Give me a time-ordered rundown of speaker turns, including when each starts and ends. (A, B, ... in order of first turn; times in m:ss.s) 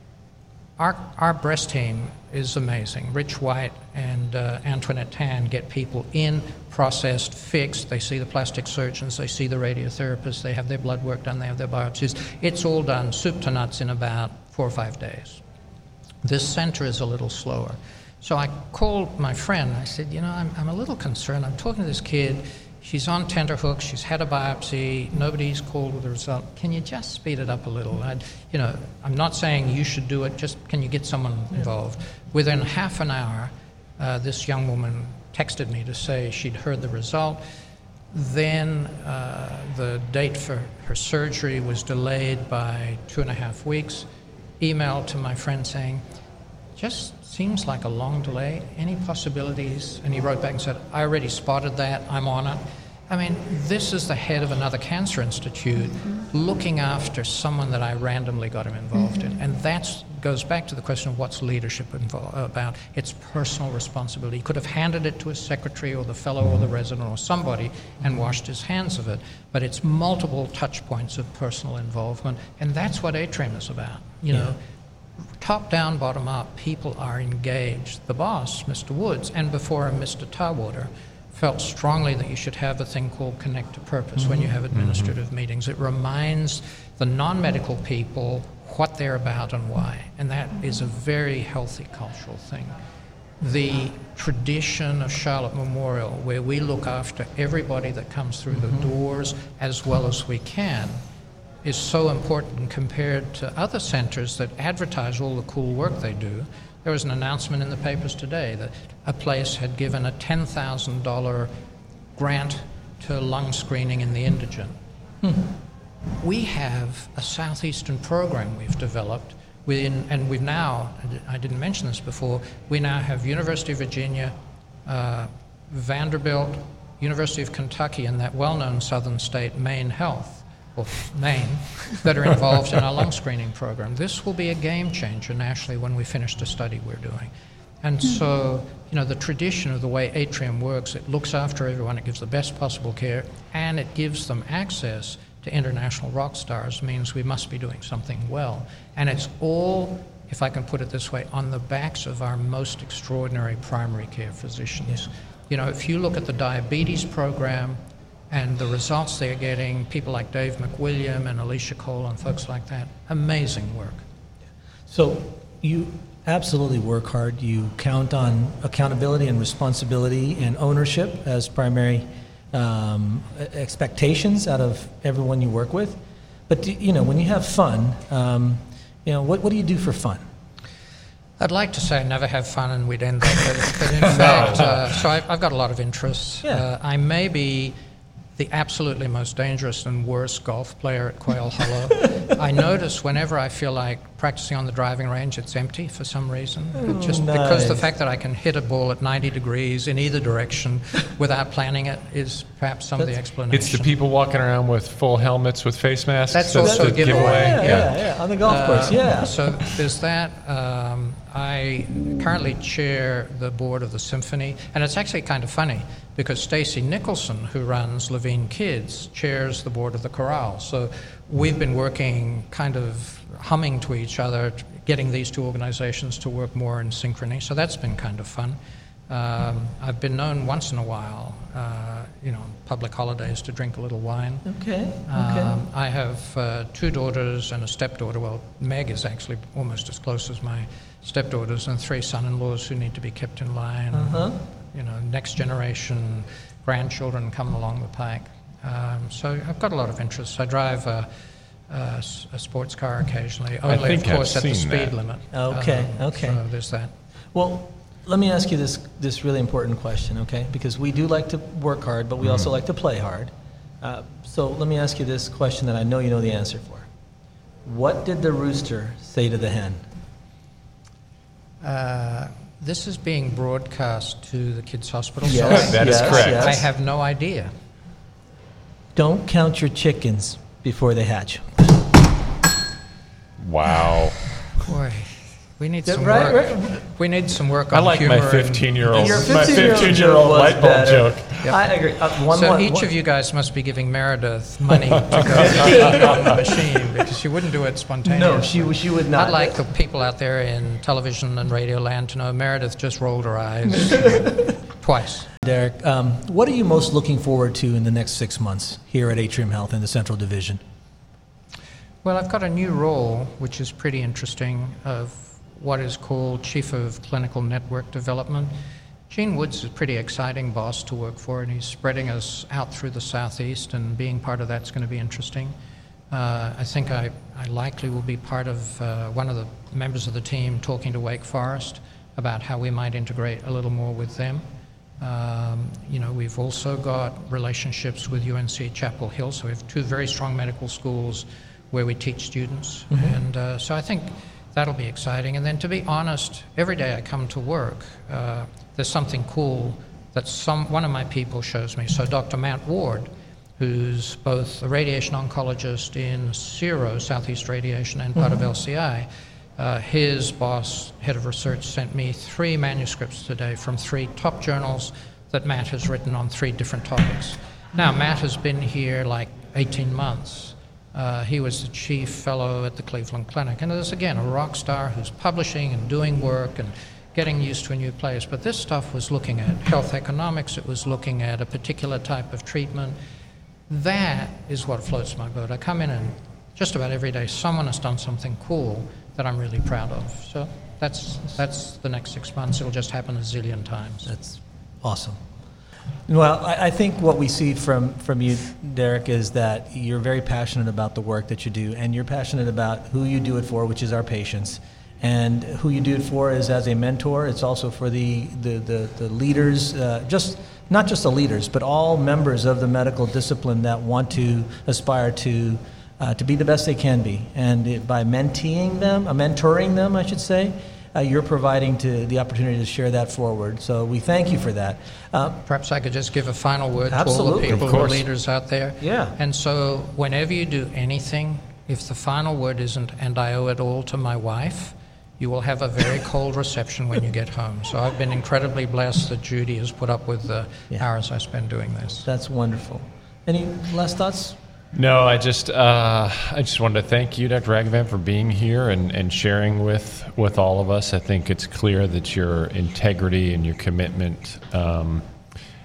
0:00.8-0:15.4 A
0:16.2-0:37.4 A
0:38.1-0:44.1 A
0:44.6-0:46.0 A
0:46.8-1:14.6 A
1:15.4-1:32.7 A
1:24.2-1:24.5 B
1:24.7-1:25.1 C
1:33.4-1:41.0 A
1:38.5-1:38.8 B
1:41.6-1:51.5 A
1:52.2-1:54.8 A
1:56.2-2:04.3 A
2:04.8-2:17.3 A
2:17.8-2:37.8 A
2:38.3-2:44.0 A
2:44.9-3:00.2 B
3:01.4-3:07.7 A
3:04.0-3:04.6 C
3:04.2-3:04.6 B
3:08.4-3:23.9 A
3:16.8-3:17.8 B
3:23.5-3:27.9 C
3:26.3-3:48.6 A
3:26.6-3:29.3 B
3:49.1-3:54.4 A
3:54.4-3:55.6 B
3:55.1-4:11.1 A
4:03.9-4:04.4 B
4:11.7-4:16.9 A
4:13.7-4:14.9 C
4:15.3-4:16.4 B
4:17.3-4:23.3 B
4:22.2-4:22.5 C
4:23.8-4:26.9 B
4:27.6-4:29.8 B
4:31.6-4:37.5 A
4:35.2-4:36.6 B
4:35.5-4:36.6 C
4:39.0-4:41.8 B
4:43.4-4:44.2 C
4:44.6-4:49.3 A
4:45.8-4:46.8 B
4:47.7-4:51.5 C
4:48.9-4:52.9 B
4:51.4-4:51.8 A
4:52.3-5:05.3 A
4:55.6-4:56.2 B
4:58.0-4:59.6 B
5:05.4-5:10.6 B
5:12.0-5:18.5 A
5:19.1-5:25.5 A
5:26.1-5:34.4 A
5:35.0-6:23.0 A
5:42.9-5:43.2 B
6:23.7-6:34.1 A
6:34.0-6:35.2 B
6:36.1-7:05.4 B
7:05.4-7:22.1 A
7:06.9-7:07.9 B
7:07.5-7:08.0 C
7:08.8-7:09.1 B
7:22.0-7:24.4 B
7:24.7-7:35.0 C